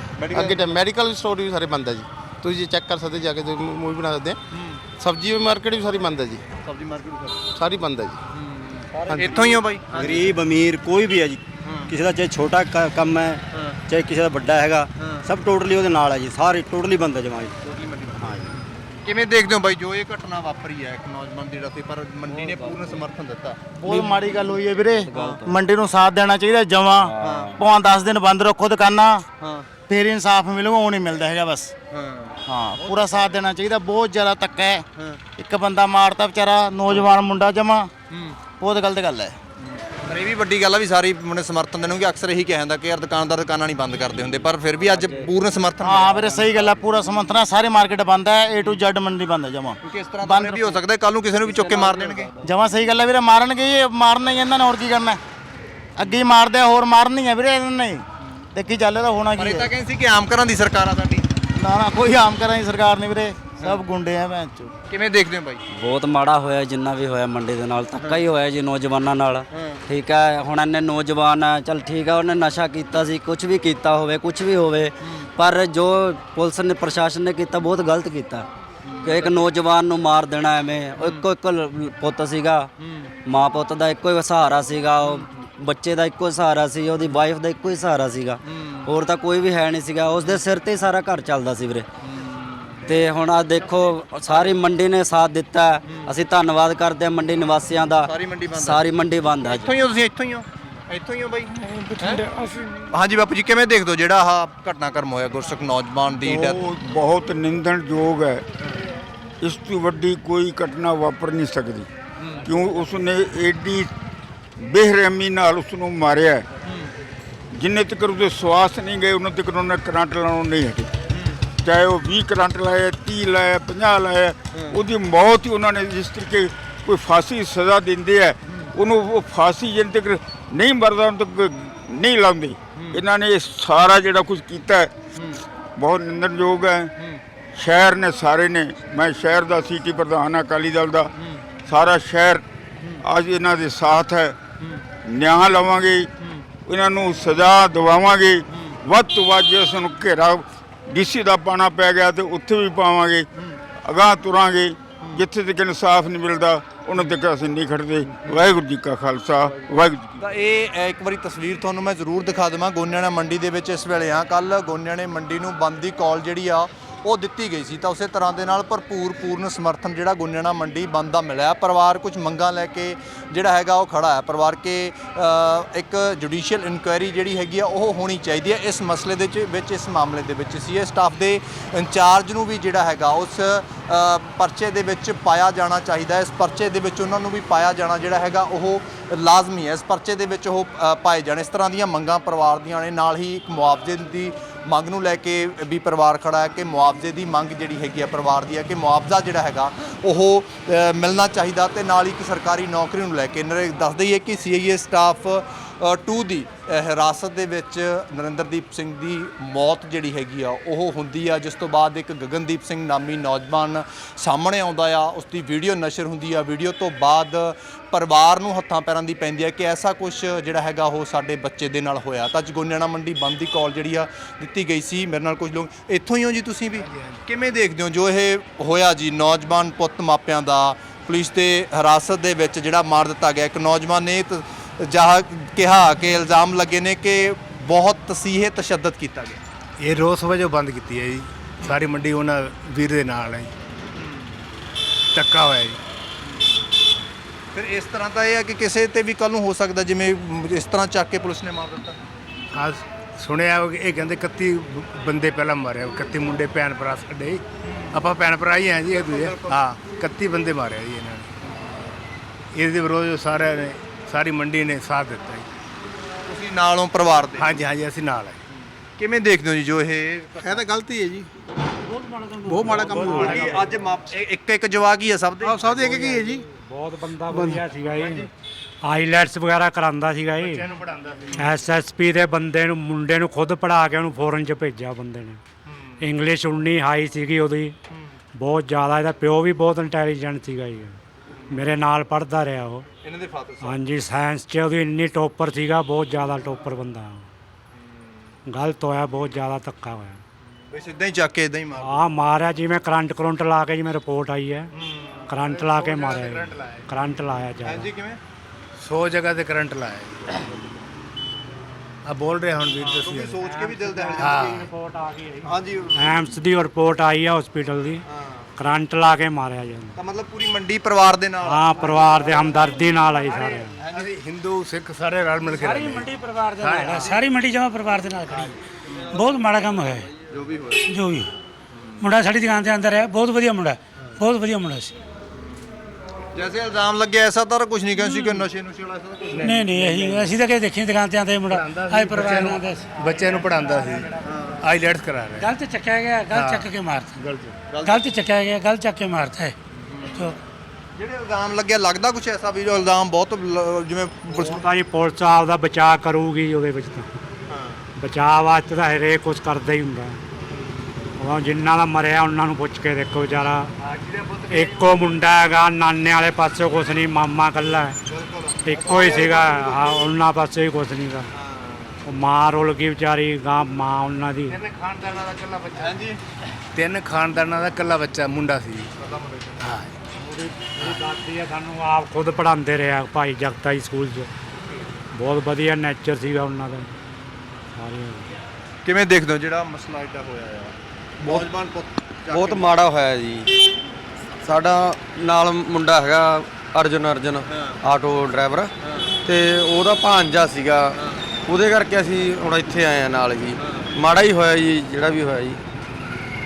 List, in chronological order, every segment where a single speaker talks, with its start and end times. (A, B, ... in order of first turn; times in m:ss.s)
0:00.2-0:00.8 A
0:00.3-0:04.4 B
0:04.5-0:04.8 A
0:05.0-0:06.4 B
0:06.6-0:07.4 A
0:07.5-0:08.2 B
0:08.3-0:10.4 A
0:09.1-0:10.2 B
0:10.0-0:17.5 C
0:11.6-0:11.9 A
0:13.5-0:13.8 A
0:15.0-0:15.3 A
0:17.6-0:23.6 A
0:23.8-0:29.2 D
0:25.1-0:25.5 A
0:27.2-0:27.5 A
0:29.4-0:29.7 A
0:29.9-0:31.7 D
0:31.9-0:33.2 A
0:32.4-0:34.8 D
0:35.4-0:37.9 D
0:38.1-0:38.4 A
0:38.6-0:39.4 D
0:39.6-0:46.4 A
0:44.9-0:45.3 E
0:45.8-0:50.8 D
0:49.8-0:52.3 A
0:51.6-0:52.2 E
0:52.4-0:55.2 D
0:56.0-0:59.7 D
0:59.3-1:01.3 A
1:01.6-1:04.7 D
1:04.9-1:05.6 A
1:05.8-1:18.4 E
1:08.0-1:08.3 A
1:09.5-1:09.8 A
1:18.8-1:19.5 A
1:19.0-1:22.7 E
1:20.9-1:21.3 A
1:22.8-1:23.1 A
1:23.2-1:31.8 E
1:25.0-1:25.3 A
1:28.5-1:28.9 A
1:30.2-1:30.4 A
1:32.0-1:32.9 A
1:32.8-1:39.7 E
1:33.6-1:34.6 A
1:35.8-1:36.2 A
1:38.0-1:42.2 A
1:41.8-1:42.6 F
1:42.9-1:46.6 A
1:46.2-1:48.4 F
1:49.4-1:51.9 F
1:52.4-1:53.9 F
1:54.6-1:56.4 F
1:57.5-2:00.9 F
2:01.1-2:01.4 A
2:01.6-2:14.9 F
2:12.8-2:13.0 A
2:15.2-2:15.4 A
2:15.8-2:16.9 F
2:17.6-2:21.1 F
2:21.6-2:22.4 F
2:23.0-2:24.4 F
2:25.0-2:26.1 F
2:26.6-2:33.3 F
2:33.8-2:40.2 F
2:38.2-2:38.5 A
2:40.2-3:59.4 A
3:46.8-3:47.2 G
3:59.8-4:03.5 G
4:03.9-4:04.4 A
4:05.1-4:05.8 G
4:07.5-4:12.0 A
4:12.5-4:21.3 G
4:17.7-4:18.0 A
4:18.9-4:19.6 A
4:22.5-4:25.5 G
4:26.2-4:27.5 A
4:27.4-4:28.4 G
4:29.0-4:30.6 A
4:30.4-4:31.3 B
4:32.0-4:33.3 H
4:32.4-4:33.4 B
4:32.5-4:33.6 G
4:33.1-4:36.0 A
4:35.4-4:36.4 B
4:35.6-4:38.3 H
4:37.3-4:37.6 B
4:37.4-4:38.3 G
4:38.8-4:40.7 H
4:40.4-4:41.6 G
4:41.4-4:45.4 H
4:46.0-4:47.7 H
4:48.4-4:51.0 H
4:51.5-4:52.8 H
4:53.0-4:53.8 A
4:53.6-4:57.3 H
4:58.5-5:00.2 H
5:00.7-5:02.0 A
5:01.8-5:04.7 H
5:04.7-5:05.2 A
5:05.3-5:07.9 H
5:05.4-5:06.9 G
5:07.6-5:08.2 A
5:08.8-5:10.5 G
5:12.1-5:13.4 G
5:12.8-5:14.7 A
5:13.4-5:18.0 H
5:14.2-5:14.7 G
5:15.4-5:16.2 A
5:18.1-5:18.5 A
5:18.6-5:20.0 H
5:20.0-5:22.8 A
5:21.4-5:23.8 H
5:23.8-5:24.1 A
5:23.9-5:27.2 G
5:25.5-5:28.6 I
5:28.9-5:29.2 A
5:29.1-5:30.1 I
5:30.3-5:30.9 A
5:30.8-5:31.3 I
5:31.7-5:32.0 A
5:32.0-5:34.9 I
5:36.3-5:39.6 A
5:38.0-5:38.4 I
5:39.3-5:40.3 G
5:39.4-5:43.0 I
5:41.5-5:45.5 G
5:43.0-5:44.0 H
5:44.2-5:44.6 A
5:45.4-5:47.2 I
5:46.3-5:47.6 G
5:47.7-5:48.0 A
5:47.8-5:49.5 I
5:49.8-5:50.3 A
5:50.1-5:50.4 I
5:51.0-5:54.7 A
5:54.3-5:57.1 H
5:57.5-5:57.8 A
5:58.0-6:00.2 H
6:01.2-6:03.7 H
6:03.9-6:04.8 G
6:04.5-6:08.0 H
6:08.1-6:09.4 A
6:08.6-6:11.3 H
6:11.3-6:12.0 A
6:12.0-6:14.6 H
6:14.5-6:16.1 G
6:15.8-6:16.2 A
6:16.7-6:18.9 G
6:19.0-6:19.6 A
6:19.6-6:20.1 G
6:20.4-6:24.3 H
6:20.5-6:21.0 A
6:25.1-6:26.9 H
6:27.8-6:28.3 H
6:28.8-6:32.7 A
6:31.2-6:31.5 J
6:32.3-6:33.6 J
6:34.4-6:38.7 J
6:37.5-6:37.8 A
6:38.8-6:39.1 A
6:39.2-6:45.6 J